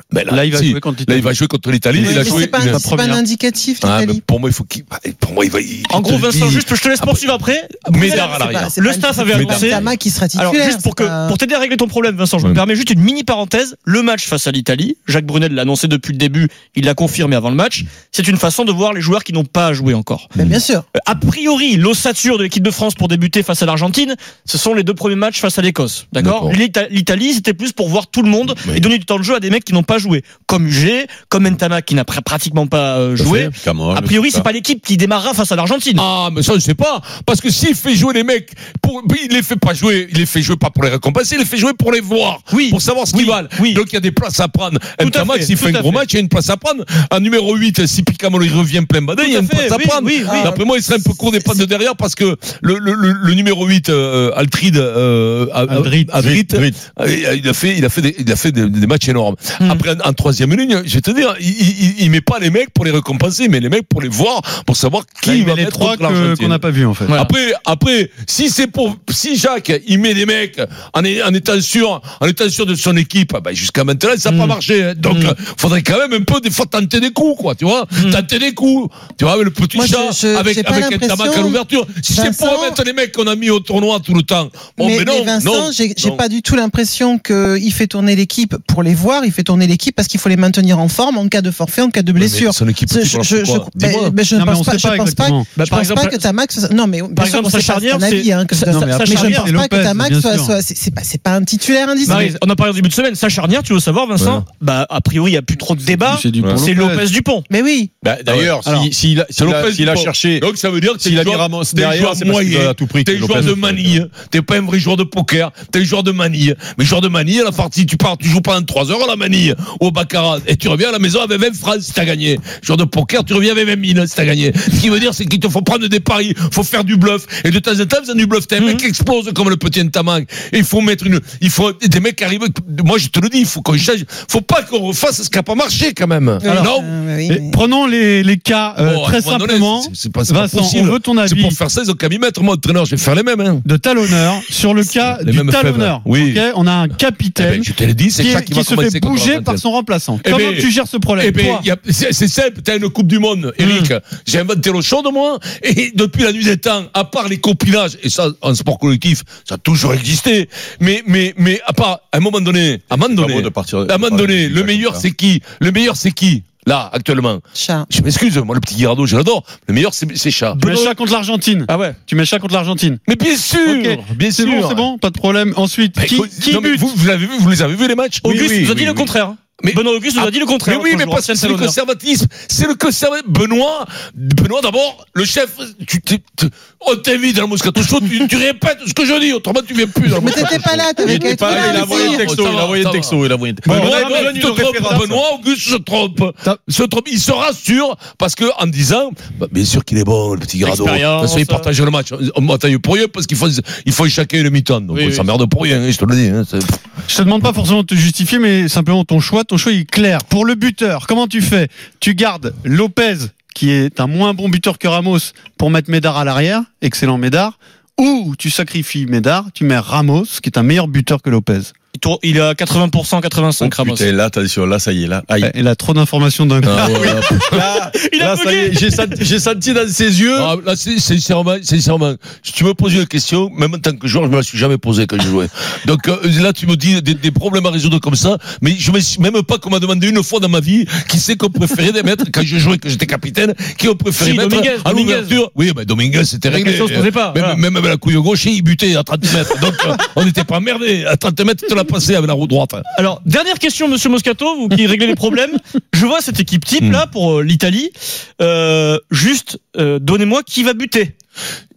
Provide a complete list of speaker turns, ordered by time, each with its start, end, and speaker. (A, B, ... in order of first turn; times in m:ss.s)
0:00.1-0:02.8 A
0:00.3-0:01.3 B
0:01.9-0:03.2 B
0:02.0-0:04.2 C
0:03.8-0:07.3 A
0:05.9-0:09.8 D
0:07.9-0:08.7 A
0:07.9-0:11.4 C
0:09.3-0:09.9 A
0:10.3-0:20.3 D
0:20.4-0:20.8 C
0:21.0-0:36.0 D
0:26.2-0:26.6 A
0:28.6-0:28.9 A
0:33.2-0:33.5 A
0:33.6-0:34.5 E
0:36.0-1:06.6 A
0:42.5-0:43.8 D
0:45.0-0:46.0 D
0:49.2-0:50.5 D
0:50.3-0:51.6 C
0:55.7-0:56.2 B
0:56.2-0:56.7 E
0:59.6-0:59.8 D
1:05.2-1:07.1 B
1:07.1-1:07.3 D
1:07.1-1:26.2 A
1:14.2-1:15.4 D
1:17.9-1:18.2 D
1:19.7-1:22.8 C
1:24.8-1:42.3 C
1:32.2-1:34.0 A
1:34.3-1:35.5 B
1:35.5-1:36.3 D
1:37.1-1:39.5 D
1:38.7-1:40.6 B
1:42.0-1:47.5 D
1:44.2-1:44.4 A
1:46.0-1:47.0 B
1:46.4-1:46.6 E
1:47.5-1:47.9 C
1:48.0-1:50.5 E
1:48.3-1:48.5 A
1:48.6-1:48.9 B
1:49.4-2:16.9 A
1:51.0-1:54.0 E
2:08.6-2:08.8 D
2:16.4-2:17.6 C
2:16.5-2:16.7 B
2:17.3-2:21.6 B
2:18.8-2:23.6 A
2:23.6-2:31.7 B
2:24.8-2:26.4 A
2:27.4-2:29.6 A
2:30.2-2:50.9 A
2:33.6-2:33.9 D
2:43.0-2:45.0 E
2:47.5-2:47.9 C
2:50.5-2:53.0 B
2:51.7-2:52.0 D
2:53.1-2:54.9 A
2:53.6-2:56.9 B
2:56.0-3:26.8 A
2:58.2-3:01.8 D
2:58.2-2:58.7 E
3:10.1-3:12.3 C
3:11.0-3:15.2 E
3:13.7-3:14.4 B
3:20.6-3:21.7 D
3:24.9-3:25.3 D
3:27.1-3:41.7 B
3:41.9-3:44.1 D
3:43.6-3:45.5 E
3:45.4-3:47.3 B
3:46.6-3:47.6 A
3:46.8-3:50.5 E
3:47.8-3:49.2 D
3:50.3-4:12.8 A
4:04.1-4:05.4 D
4:06.5-4:07.6 D
4:12.9-4:21.1 D
4:16.8-4:17.0 A